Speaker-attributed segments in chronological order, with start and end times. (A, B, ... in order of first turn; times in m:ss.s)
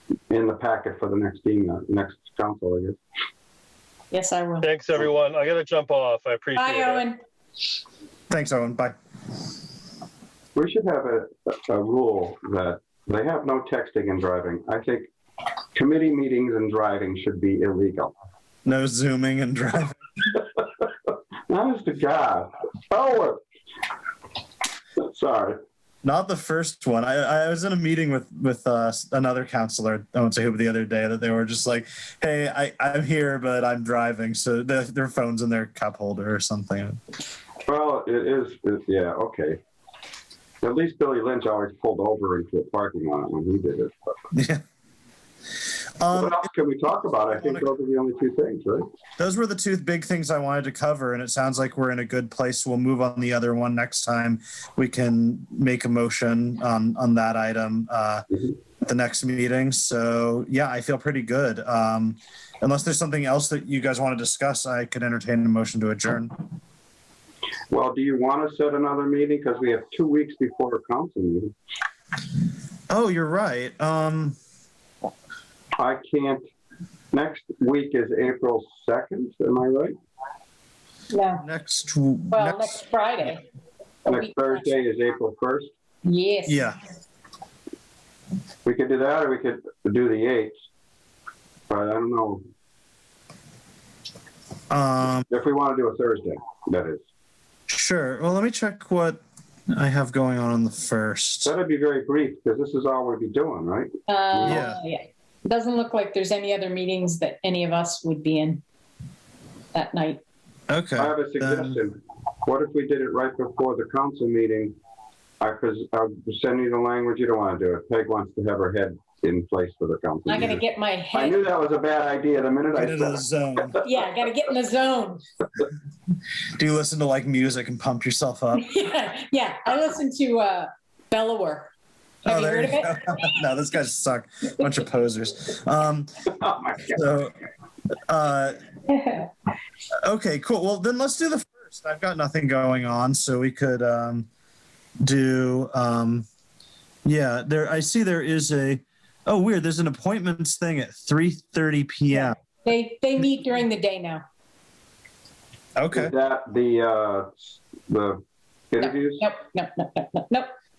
0:00.3-0:03.0 A
0:04.1-0:04.7 B
0:04.6-0:07.0 C
0:06.6-0:07.2 B
0:08.3-0:09.0 D
0:10.6-0:15.1 A
0:15.8-0:18.1 A
0:18.6-0:20.0 D
0:21.5-0:23.4 A
0:25.0-0:25.6 A
0:26.0-0:37.0 D
0:37.7-0:39.6 A
0:40.6-0:43.9 A
0:44.3-0:44.6 D
0:46.0-0:46.4 D
0:46.1-0:48.9 A
0:47.3-0:47.7 D
0:49.2-0:58.2 D
0:58.8-1:06.4 D
1:07.7-1:11.5 A
1:12.9-1:14.4 D
1:15.8-1:16.4 A
1:17.1-1:19.9 A
1:21.1-1:21.4 B
1:21.4-1:22.8 D
1:22.3-1:23.4 B
1:24.1-1:25.7 A
1:24.1-1:24.5 B
1:26.0-1:26.7 B
1:26.5-1:26.8 D
1:28.6-1:30.5 A
1:31.7-1:32.4 A
1:34.7-1:35.3 D
1:35.3-1:37.0 A
1:37.7-1:39.2 D
1:39.7-1:41.5 D
1:41.4-1:44.7 A
1:44.1-1:48.6 B
1:44.4-1:44.8 D
1:49.7-1:50.2 B
1:50.7-1:51.8 D
1:51.0-1:54.8 A
1:55.4-2:00.6 A
2:00.3-2:01.4 B
2:01.1-2:03.2 A
2:02.8-2:03.8 D
2:03.8-2:05.2 B
2:06.6-2:08.7 D
2:08.6-2:11.7 B
2:12.2-2:13.2 B
2:12.3-2:16.3 D
2:16.3-2:17.0 A
2:16.9-2:17.3 D
2:18.1-2:18.6 D
2:18.9-2:19.3 B
2:20.0-2:24.3 D
2:25.0-2:26.3 D
2:27.1-2:32.4 D
2:32.2-2:34.2 B
2:35.8-2:36.1 D
2:35.9-2:39.3 A
2:38.8-2:40.5 B